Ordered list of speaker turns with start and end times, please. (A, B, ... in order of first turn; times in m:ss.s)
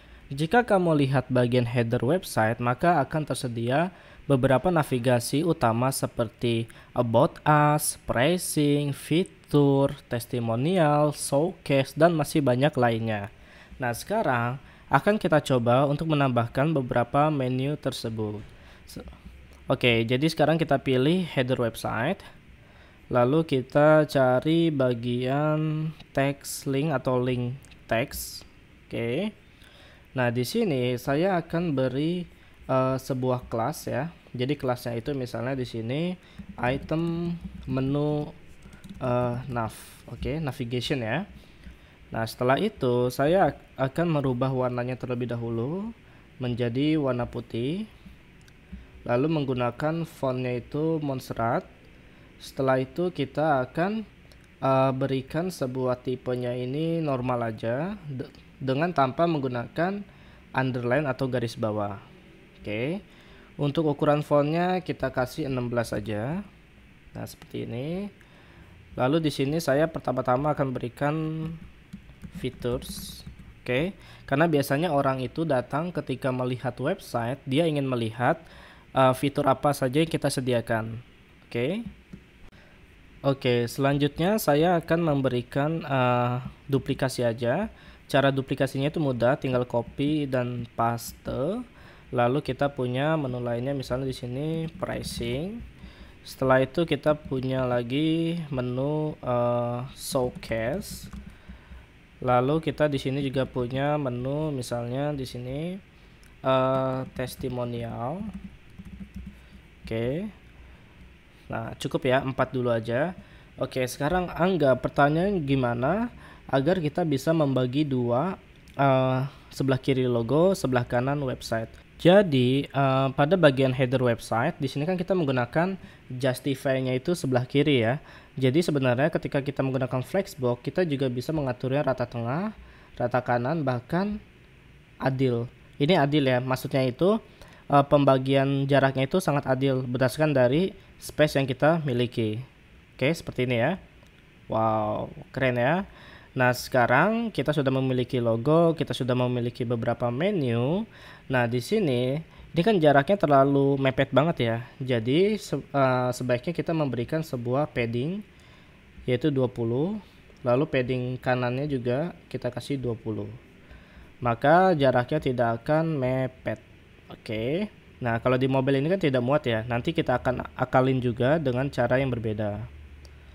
0:00.3-0:13.3 A
0:13.8-0:19.1 A
0:19.7-0:22.2 A
0:23.1-0:29.3 A
0:30.2-0:38.3 A
0:39.0-0:41.2 A
0:42.1-0:47.9 A
0:49.1-0:51.7 A
0:52.4-0:54.0 A
0:54.6-1:00.0 A
1:00.6-1:02.0 A
1:02.6-1:03.0 A
1:03.6-1:06.4 A
1:07.1-1:08.1 A
1:09.0-1:11.6 A
1:12.4-1:18.4 A
1:19.0-1:20.9 A
1:21.5-1:21.8 A
1:23.3-1:31.6 A
1:32.1-1:35.6 A
1:36.2-1:41.1 A
1:42.2-1:45.8 A
1:46.4-1:48.3 A
1:49.8-1:50.3 A
1:51.5-1:53.1 A
1:53.6-2:14.1 A
2:15.0-2:17.1 A
2:17.7-2:22.4 A
2:23.0-2:23.8 A
2:24.5-2:25.8 A
2:26.4-2:38.2 A
2:39.1-2:43.3 A
2:44.2-2:52.6 A